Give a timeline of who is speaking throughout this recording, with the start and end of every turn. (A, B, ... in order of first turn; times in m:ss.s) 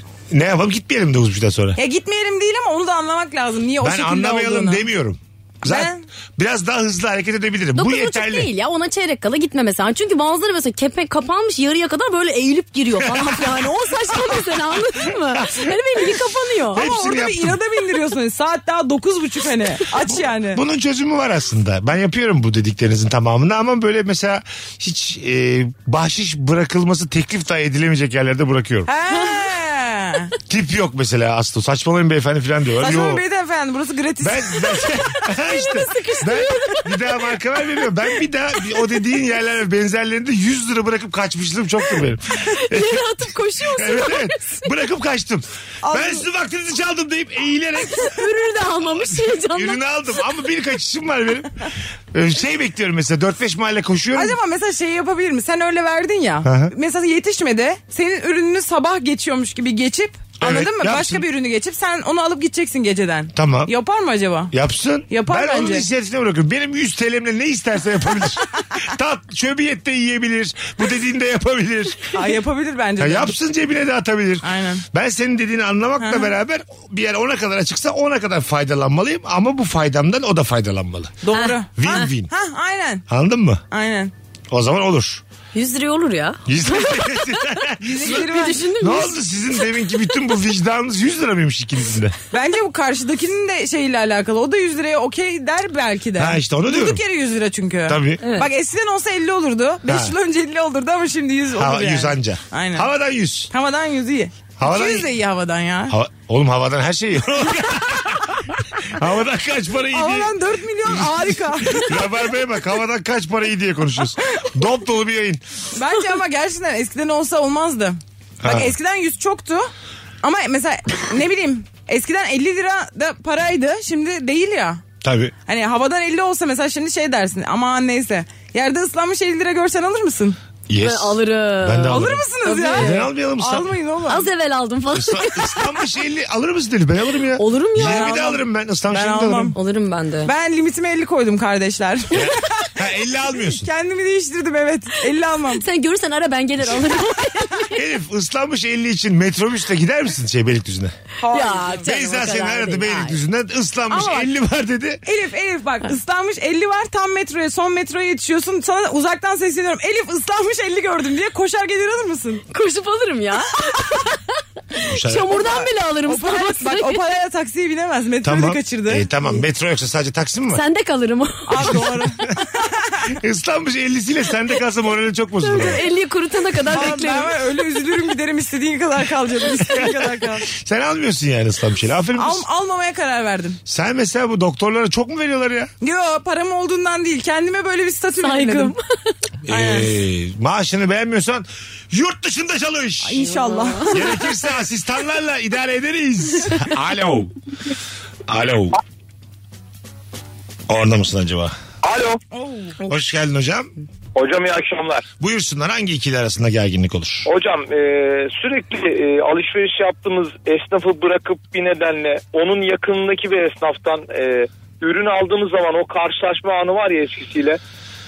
0:00.3-0:01.8 A
0:01.8-0:04.8 B
0:03.8-0:08.5 A
0:05.6-0:06.0 B
0:07.7-0:16.8 C
0:15.3-0:15.7 A
0:16.8-0:17.6 A
0:16.8-0:20.6 B
0:20.5-0:28.9 A
0:28.8-0:30.3 B
0:30.5-0:33.2 A
0:32.8-0:34.9 B
0:34.2-0:43.0 A
0:35.5-0:37.2 C
0:42.5-0:44.7 C
0:43.7-0:48.2 A
0:45.8-0:46.2 B
0:47.9-0:49.8 C
0:49.4-0:54.4 A
0:54.1-1:04.5 B
0:56.4-0:56.7 A
1:00.4-1:01.2 A
1:03.3-1:03.7 A
1:04.5-1:12.2 A
1:05.1-1:05.9 B
1:12.1-1:13.3 B
1:13.0-1:21.2 A
1:14.4-1:14.8 B
1:16.0-1:16.3 B
1:21.2-1:23.0 B
1:21.3-1:22.1 C
1:21.8-1:22.3 A
1:23.1-1:23.6 A
1:23.7-1:24.1 B
1:24.5-1:25.2 A
1:25.5-1:29.2 C
1:26.4-1:28.2 A
1:27.8-1:28.7 B
1:28.8-1:32.1 A
1:32.3-1:42.9 B
1:36.2-1:37.0 A
1:37.9-1:38.2 A
1:38.2-1:38.5 C
1:39.9-1:40.1 A
1:41.5-1:43.5 A
1:43.5-1:45.9 B
1:44.6-1:45.1 A
1:45.9-1:50.3 A
1:49.9-1:51.9 B
1:50.9-1:55.4 A
1:55.8-1:59.7 B
1:58.4-1:58.7 A
2:00.2-2:04.8 B
2:05.0-2:05.3 A
2:05.5-2:10.4 B
2:10.7-2:13.7 A
2:10.8-2:13.1 C
2:11.9-2:14.2 B
2:14.1-2:15.7 C
2:14.9-2:19.5 A
2:17.4-2:18.1 C
2:17.8-2:19.6 B
2:19.5-2:20.3 C
2:20.2-2:22.7 B
2:22.1-2:23.7 A
2:23.4-2:25.6 B
2:25.5-2:27.8 C
2:27.7-2:30.9 A
2:31.2-2:31.9 B
2:31.3-2:33.2 C
2:31.8-2:35.0 A
2:33.9-2:34.2 B
2:35.0-2:42.4 B
2:42.5-2:44.2 C
2:44.7-2:47.0 C
2:44.9-2:45.4 A
2:45.3-2:49.0 B
2:48.2-2:50.6 A
2:50.5-2:51.8 C
2:51.5-2:52.8 B
2:51.6-2:52.1 A
2:53.1-2:55.8 A
2:55.4-2:57.4 C
2:56.7-3:00.5 B
3:00.5-3:02.4 A
3:02.2-3:03.6 B
3:03.6-3:05.7 A
3:05.8-3:08.7 B
3:08.2-3:08.8 C
3:09.5-3:13.2 A
3:09.5-3:09.9 B
3:13.0-3:14.2 B
3:13.2-3:13.9 C
3:13.9-3:17.3 A
3:18.3-3:18.8 A
3:20.7-3:21.5 A
3:21.8-3:22.2 D
3:22.3-3:22.9 B
3:22.8-3:23.7 A
3:24.2-3:25.1 D
3:25.2-3:27.3 A
3:27.2-3:37.6 D